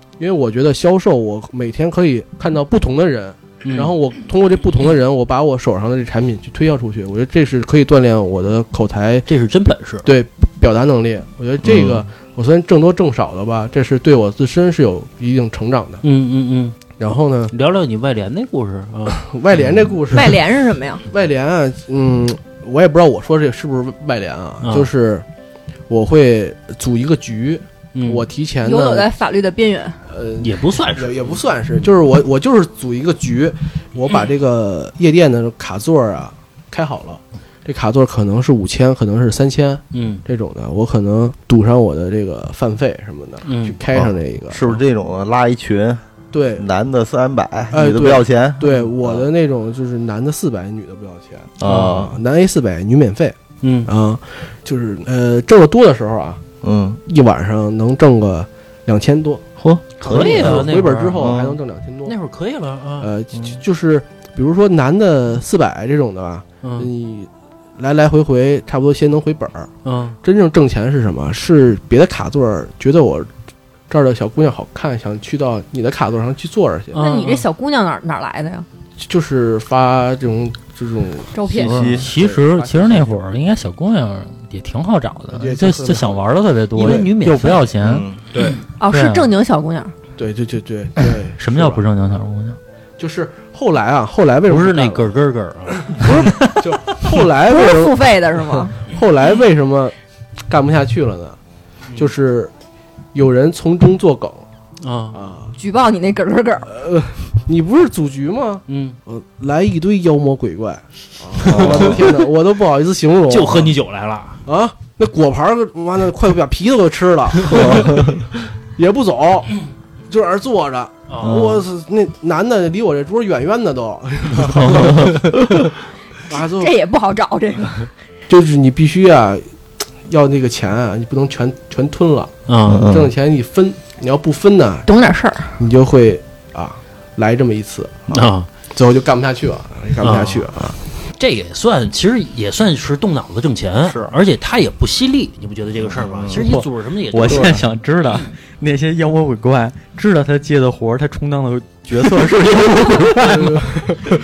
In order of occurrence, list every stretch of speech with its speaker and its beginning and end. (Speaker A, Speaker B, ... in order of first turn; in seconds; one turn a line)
Speaker A: 0.2-9.3
Speaker B: 3.6-3.9
Speaker B: 9.3-10.1
Speaker A: 10.0-16.0
Speaker B: 16.0-16.8
Speaker A: 17.0-17.5
Speaker B: 17.5-19.7
Speaker A: 19.1-20.4
Speaker C: 20.1-21.0
Speaker A: 21.1-25.2
Speaker B: 24.6-24.9
Speaker A: 25.9-29.1
Speaker B: 27.9-28.2
Speaker C: 28.6-30.0
Speaker A: 30.1-44.8
Speaker B: 30.4-31.3
Speaker B: 39.9-40.2
Speaker B: 43.5-43.8
Speaker D: 43.9-46.0
Speaker A: 46.3-46.7
Speaker D: 46.6-49.2
Speaker A: 47.7-56.4
Speaker D: 51.6-52.1
Speaker B: 51.6-52.0
Speaker B: 53.6-53.9
Speaker D: 56.6-57.0
Speaker A: 57.0-59.4
Speaker D: 59.6-61.6
Speaker B: 60.0-61.3
Speaker A: 60.0-62.1
Speaker B: 62.0-63.1
Speaker A: 63.0-69.7
Speaker B: 66.6-66.9
Speaker B: 69.8-70.2
Speaker A: 70.2-73.3
Speaker A: 73.9-77.0
Speaker B: 76.9-77.5
Speaker C: 77.0-78.7
Speaker A: 79.0-83.2
Speaker C: 81.3-81.9
Speaker D: 81.5-82.1
Speaker E: 81.8-88.1
Speaker A: 85.3-86.3
Speaker B: 86.7-87.7
Speaker A: 86.8-87.0
Speaker D: 87.8-88.2
Speaker C: 88.8-89.9
Speaker E: 88.9-89.3
Speaker A: 90.2-91.8
Speaker E: 91.4-92.6
Speaker A: 93.0-95.1
Speaker B: 94.5-96.2
Speaker A: 95.7-99.9
Speaker C: 97.5-98.7
Speaker A: 100.5-101.4
Speaker A: 102.0-102.5
Speaker A: 103.1-104.5
Speaker B: 104.8-105.2
Speaker A: 105.1-105.5
Speaker C: 105.6-106.7
Speaker A: 106.7-113.7
Speaker B: 108.7-109.0
Speaker B: 111.4-111.9
Speaker D: 111.5-112.0
Speaker B: 113.3-114.4
Speaker A: 114.5-119.6
Speaker D: 117.4-118.2
Speaker A: 120.1-125.7
Speaker B: 121.1-121.4
Speaker D: 121.2-121.6
Speaker B: 124.4-125.2
Speaker A: 126.3-126.8
Speaker C: 126.3-127.9
Speaker A: 128.3-129.5
Speaker A: 130.0-134.9
Speaker B: 132.5-132.9
Speaker D: 132.7-133.1
Speaker C: 134.8-135.6
Speaker A: 135.6-138.2
Speaker B: 138.1-138.5
Speaker A: 138.7-140.8
Speaker B: 140.0-140.5
Speaker B: 141.2-147.6
Speaker D: 145.9-146.4
Speaker E: 146.3-153.7
Speaker A: 147.2-147.6
Speaker D: 152.0-152.2
Speaker A: 153.3-154.0